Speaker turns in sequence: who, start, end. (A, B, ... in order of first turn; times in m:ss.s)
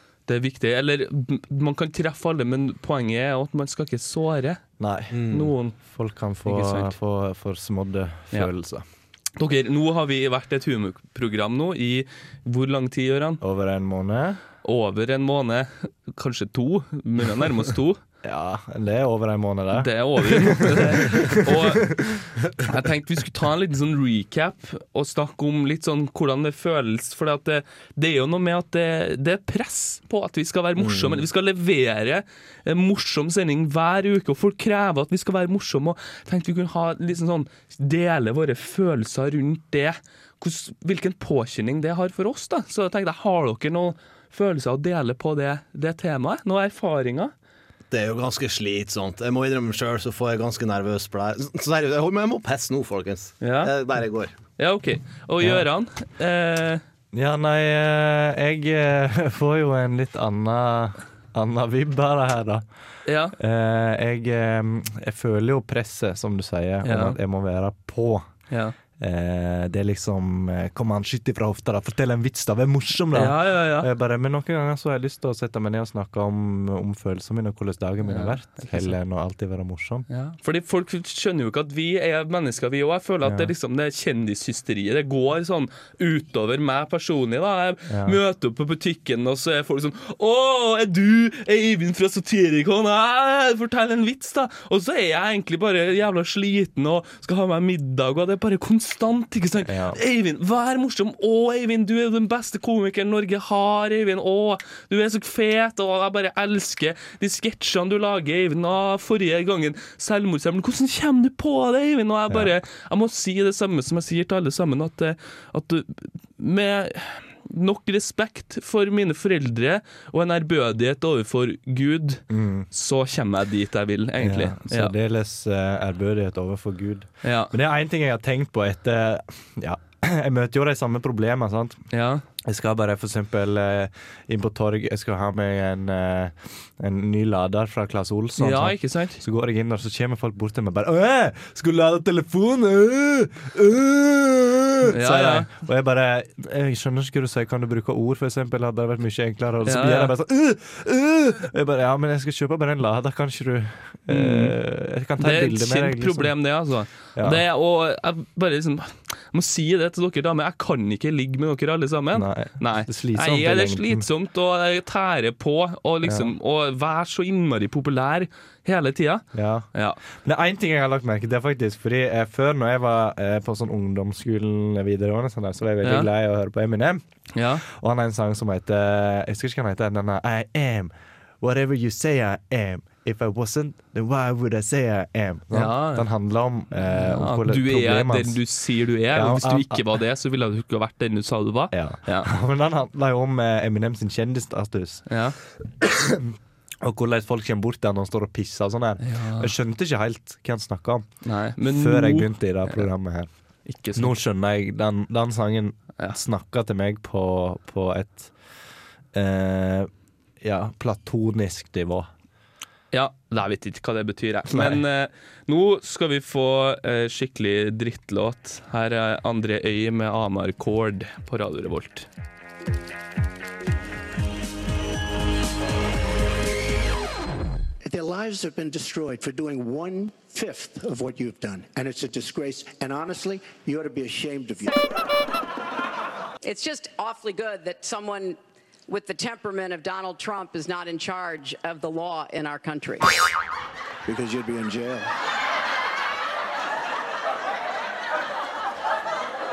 0:00.3-0:04.6 A
0:04.8-0:08.8 B
0:05.1-0:05.5 C
0:05.3-0:05.8 A
0:06.5-0:07.0 A
0:09.4-0:13.4 A
0:13.4-0:14.4 B
0:14.6-0:18.0 A
0:18.2-0:22.2 B
0:19.8-0:22.1 A
0:22.6-0:47.3 A
0:47.9-0:54.3 C
0:53.4-0:53.7 A
0:54.6-0:56.8 A
0:55.4-0:55.7 B
0:57.1-1:02.7 B
1:03.0-1:03.4 A
1:03.3-1:08.3 B
1:06.8-1:07.2 A
1:08.5-1:08.8 A
1:09.0-1:20.1 B
1:13.1-1:13.9 A
1:18.0-1:19.0 A
1:20.1-2:04.9 A
1:23.2-1:23.5 B
1:27.9-1:28.2 B
1:39.7-1:40.0 B
2:02.3-2:02.7 B
2:04.2-2:11.9 B
2:07.2-2:07.5 A
2:11.9-2:12.2 A
2:12.4-2:36.4 B
2:18.4-2:19.2 A
2:24.9-2:25.5 A
2:29.6-2:30.1 A
2:34.1-2:34.6 A
2:35.2-2:50.0 A
2:37.2-2:37.4 B
2:42.1-2:44.1 B
2:46.0-2:46.3 B
2:49.3-3:08.4 B
2:55.8-2:56.1 A
2:57.3-2:57.6 A
3:05.5-3:06.1 A
3:06.8-3:12.3 A
3:09.1-3:10.0 B
3:11.7-3:21.1 B
3:15.1-3:15.4 A
3:19.0-3:19.5 A
3:21.2-3:22.9 A
3:21.6-3:23.3 B
3:23.7-3:24.2 A
3:24.0-3:28.4 B
3:29.1-3:32.1 B
3:32.9-3:42.1 A
3:34.5-3:34.8 B
3:47.8-3:54.9 D
3:56.4-4:03.0 E
4:04.1-4:05.1 D